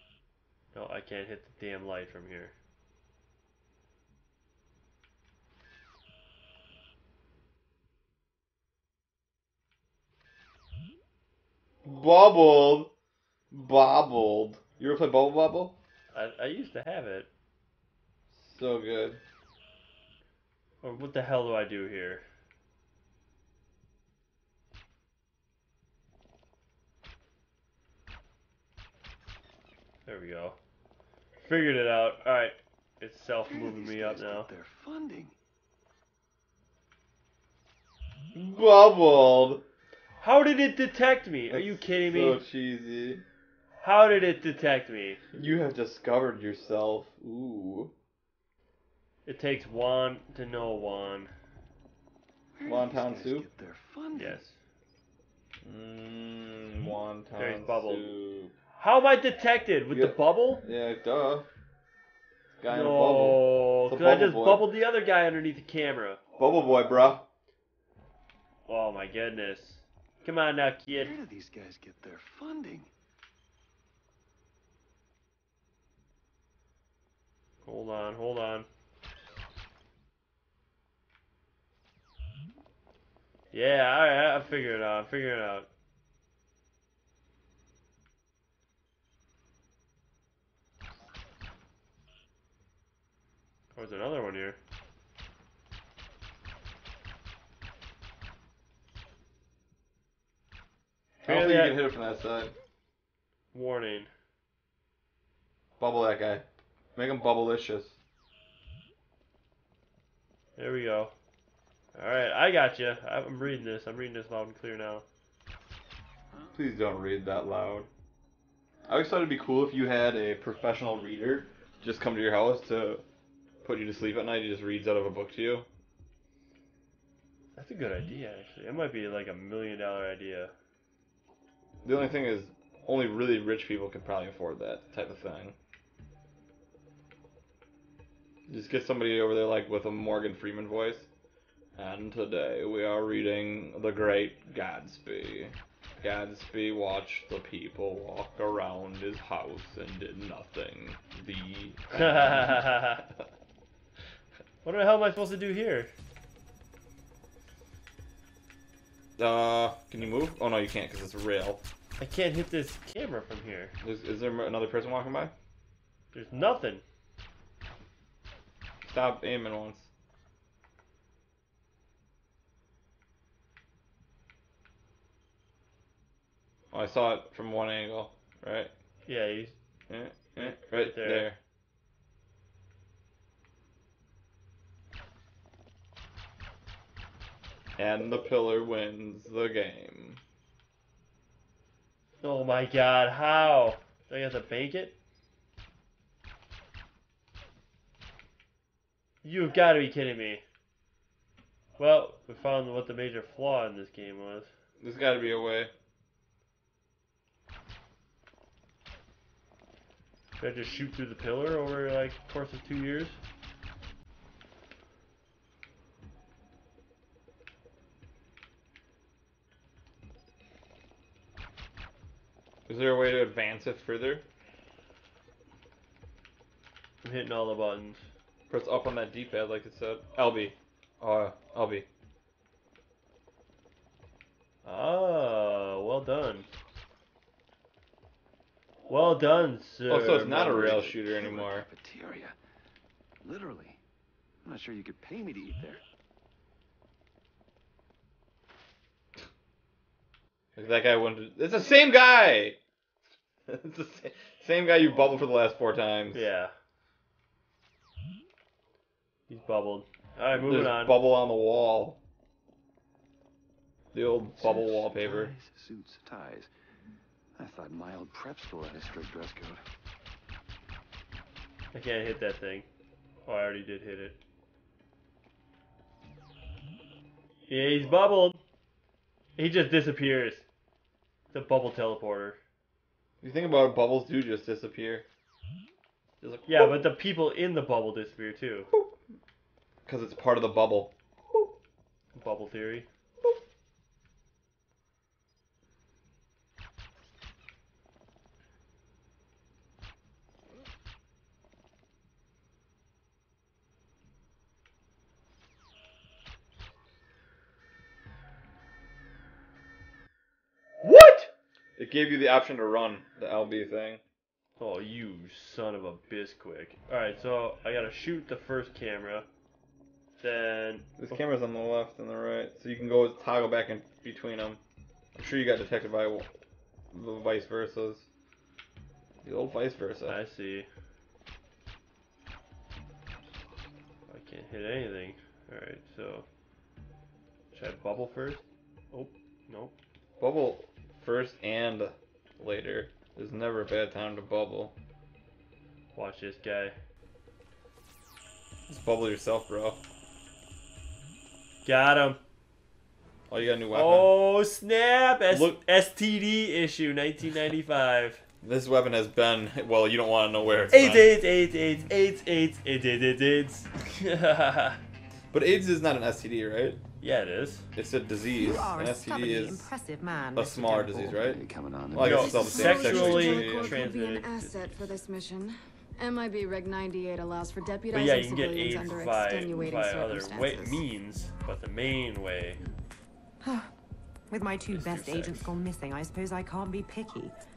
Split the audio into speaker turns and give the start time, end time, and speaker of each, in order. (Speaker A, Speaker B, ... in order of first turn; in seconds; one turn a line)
Speaker A: 0.7-2.5
Speaker B: 11.8-12.9
Speaker B: 13.5-15.8
Speaker A: 16.1-17.3
Speaker B: 18.3-19.2
Speaker A: 20.8-22.2
Speaker A: 30.1-30.6
Speaker A: 31.4-34.5
Speaker C: 33.5-35.3
Speaker B: 38.3-39.6
Speaker A: 40.2-42.4
Speaker B: 41.5-43.2
Speaker A: 43.8-45.2
Speaker B: 45.3-47.9
Speaker A: 49.2-51.3
Speaker C: 52.6-54.4
Speaker B: 52.6-53.5
Speaker A: 54.1-54.6
Speaker B: 55.6-58.5
Speaker A: 57.4-58.1
Speaker A: 58.8-60.6
Speaker B: 59.9-61.5
Speaker B: 62.6-64.7
Speaker A: 62.7-66.2
Speaker B: 66.4-67.2
Speaker A: 68.7-71.1
Speaker C: 71.0-72.9
Speaker A: 77.7-78.7
Speaker A: 83.5-85.7
Speaker A: 93.8-94.6
Speaker A: 101.2-101.8
Speaker B: 101.2-102.5
Speaker A: 103.5-104.1
Speaker B: 105.8-106.4
Speaker B: 107.0-108.0
Speaker A: 110.6-111.1
Speaker A: 111.9-115.0
Speaker B: 116.5-117.9
Speaker B: 118.9-123.0
Speaker B: 123.6-125.7
Speaker A: 127.6-130.5
Speaker B: 131.8-135.6
Speaker B: 138.5-141.1
Speaker B: 141.8-152.7
Speaker A: 151.9-153.1
Speaker A: 154.6-155.9
Speaker B: 159.2-161.6
Speaker A: 162.0-163.7
Speaker B: 163.8-165.3
Speaker A: 166.1-166.8
Speaker B: 168.8-169.9
Speaker B: 176.7-178.7
Speaker A: 179.1-179.6
Speaker B: 179.9-181.4
Speaker A: 180.4-181.3
Speaker B: 187.8-190.2
Speaker A: 192.2-195.0
Speaker A: 199.2-200.4
Speaker A: 201.8-204.5
Speaker B: 204.8-205.7
Speaker A: 210.4-213.2
Speaker B: 222.7-224.2
Speaker A: 227.0-228.0
Speaker B: 228.5-231.9
Speaker A: 234.7-236.5
Speaker A: 238.9-240.9
Speaker B: 239.9-241.7
Speaker C: 240.7-242.4
Speaker C: 243.2-243.8
Speaker C: 244.4-245.8
Speaker B: 250.6-252.6
Speaker B: 253.5-256.3
Speaker A: 256.1-256.5
Speaker A: 259.3-261.0
Speaker B: 260.3-262.0
Speaker B: 263.9-265.3
Speaker C: 264.4-266.5
Speaker C: 267.4-269.6
Speaker A: 271.7-272.7
Speaker A: 273.2-274.2
Speaker A: 277.5-278.4
Speaker A: 279.4-280.4
Speaker A: 281.3-282.4
Speaker B: 283.2-285.1
Speaker B: 286.2-286.8
Speaker A: 286.5-288.7
Speaker B: 289.9-291.5
Speaker A: 292.1-292.9
Speaker A: 310.8-311.3
Speaker B: 311.8-314.0
Speaker A: 314.6-319.2
Speaker A: 320.2-321.2
Speaker B: 321.0-324.6
Speaker B: 325.1-326.3
Speaker B: 326.9-328.1
Speaker B: 329.2-330.2
Speaker A: 330.1-330.7
Speaker A: 334.1-336.2
Speaker A: 337.5-339.8
Speaker B: 340.2-344.8
Speaker A: 345.9-346.8
Speaker B: 348.7-349.8
Speaker A: 351.6-352.2
Speaker B: 353.3-354.1
Speaker A: 353.7-358.2
Speaker B: 355.3-355.6
Speaker B: 358.4-361.1
Speaker A: 360.7-364.8
Speaker B: 365.3-366.8
Speaker A: 367.0-367.6
Speaker B: 367.8-369.6
Speaker D: 368.3-371.2
Speaker B: 370.3-373.8
Speaker C: 371.1-372.7
Speaker A: 372.0-374.9
Speaker E: 372.0-380.8
Speaker A: 377.9-382.6
Speaker D: 383.4-383.7
Speaker D: 384.3-387.4
Speaker A: 384.8-385.2